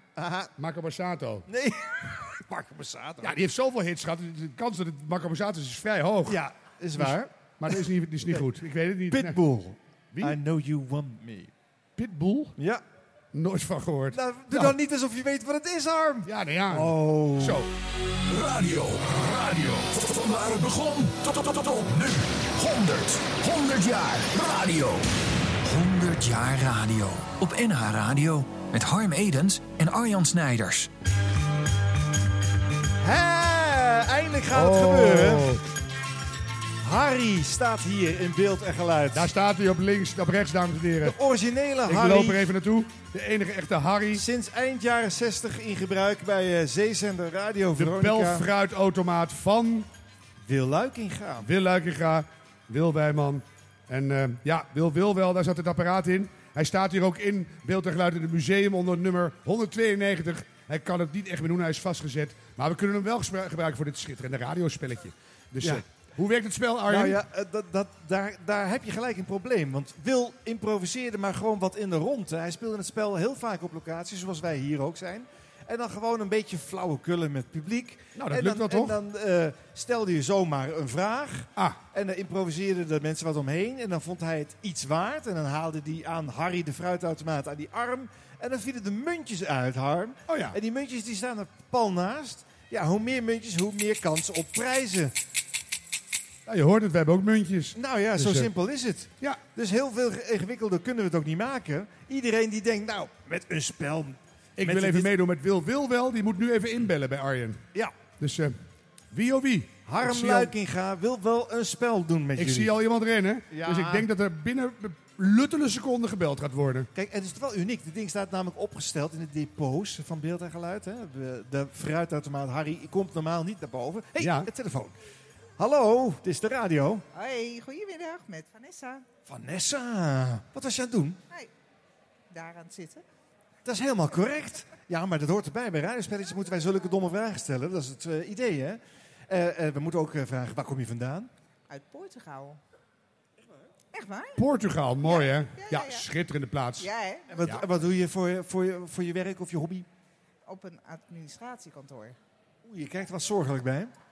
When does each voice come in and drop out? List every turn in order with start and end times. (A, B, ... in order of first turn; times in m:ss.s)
0:00.2-0:00.5 A
0:00.6-0:01.4 B
0:01.5-0:03.3 A
0:03.2-0:06.4 B
0:06.3-0:07.3 A
0:07.0-0:09.4 B
0:09.1-0:11.5 A
0:10.1-0:10.4 B
0:12.0-0:12.6 B
0:12.6-0:12.8 A
0:13.3-0:14.8 B
0:14.1-0:17.6 A
0:16.2-0:17.7 B
0:18.3-0:25.0 C
0:25.6-0:30.9 C
0:33.0-0:35.4 A
0:34.5-0:35.6 B
0:36.8-0:39.3 A
0:39.1-0:41.2 B
0:41.0-0:42.4 A
0:41.8-0:44.2 B
0:44.1-0:48.4 A
0:47.8-0:49.9 B
0:50.4-0:51.5 A
0:51.4-1:07.2 B
1:06.9-1:35.1 A
1:18.2-1:19.0 B
1:30.3-1:30.6 B
1:36.4-1:38.5 B
1:37.7-1:45.1 A
1:44.6-1:47.6 B
1:48.2-1:48.6 B
1:49.1-1:50.5 B
1:49.8-1:52.7 A
1:52.4-1:56.9 B
1:53.5-1:54.1 A
1:56.9-2:04.9 A
2:04.2-2:04.5 B
2:05.6-2:07.0 A
2:07.1-2:09.0 D
2:09.2-2:11.2 A
2:12.3-2:13.0 D
2:13.6-2:21.3 A
2:21.7-2:22.6 D
2:23.9-2:24.4 D
2:24.4-2:26.9 B
2:25.0-2:26.1 D
2:26.8-2:27.5 D
2:27.3-2:29.9 A
2:30.4-2:32.2 D
2:32.6-2:33.9 A